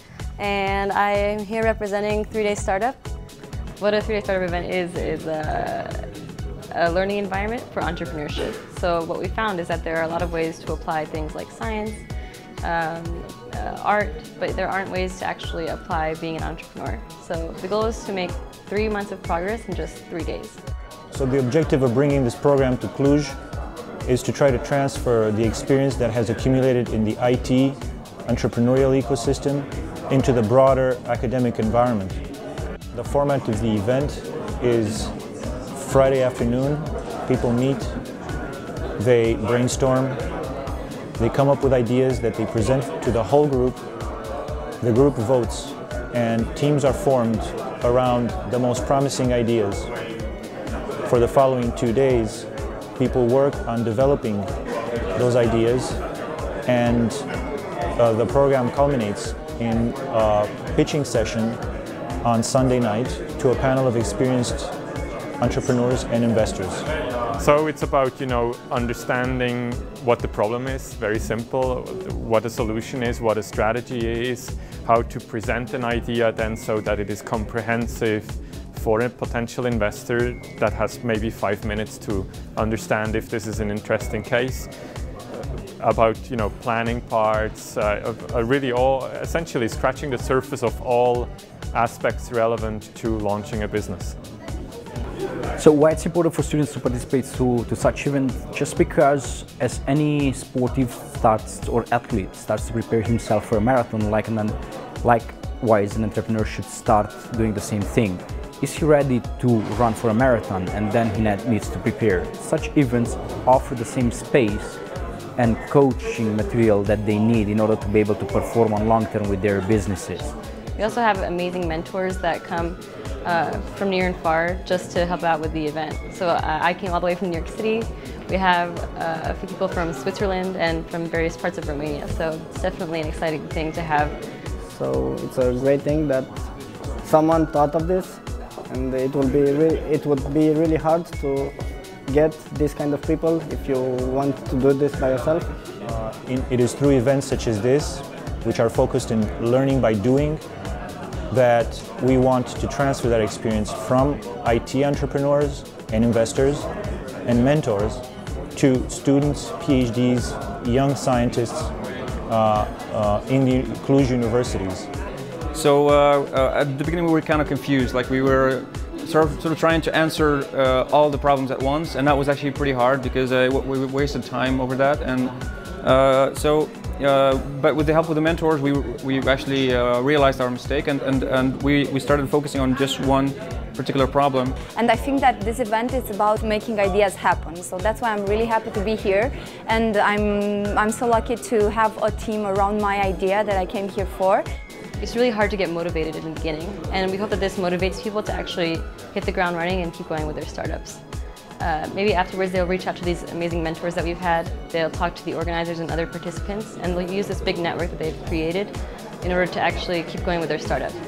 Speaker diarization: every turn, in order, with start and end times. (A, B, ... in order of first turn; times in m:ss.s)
0:00.4-0:03.1 A
0:03.8-0:06.1 A
0:06.7-0:12.0 A
0:12.6-0:20.6 A
0:21.1-0:23.4 B
0:24.0-0:32.2 B
0:32.9-0:35.1 B
0:35.7-0:37.9 B
0:39.0-0:40.2 B
0:41.2-0:43.8 B
0:44.8-0:49.9 B
0:51.1-0:52.5 B
0:53.0-0:54.5 B
0:55.2-0:56.0 B
0:56.7-0:57.2 B
0:58.0-1:01.6 B
1:02.2-1:04.7 B
1:05.4-1:06.8 B
1:07.4-1:24.7 C
1:25.8-1:34.2 C
1:35.6-1:54.8 D
1:55.4-2:00.3 D
2:00.8-2:14.2 A
2:14.7-2:16.4 E
2:17.0-2:21.5 E
2:22.1-2:25.5 E
2:25.9-2:30.4 B
2:31.3-2:36.7 B
2:37.3-2:38.0 B
2:38.6-2:41.7 B
2:42.3-2:44.9 B
2:45.5-3:04.6 F
3:04.8-3:14.4 G
3:15.0-3:21.0 A
3:21.6-3:31.0 A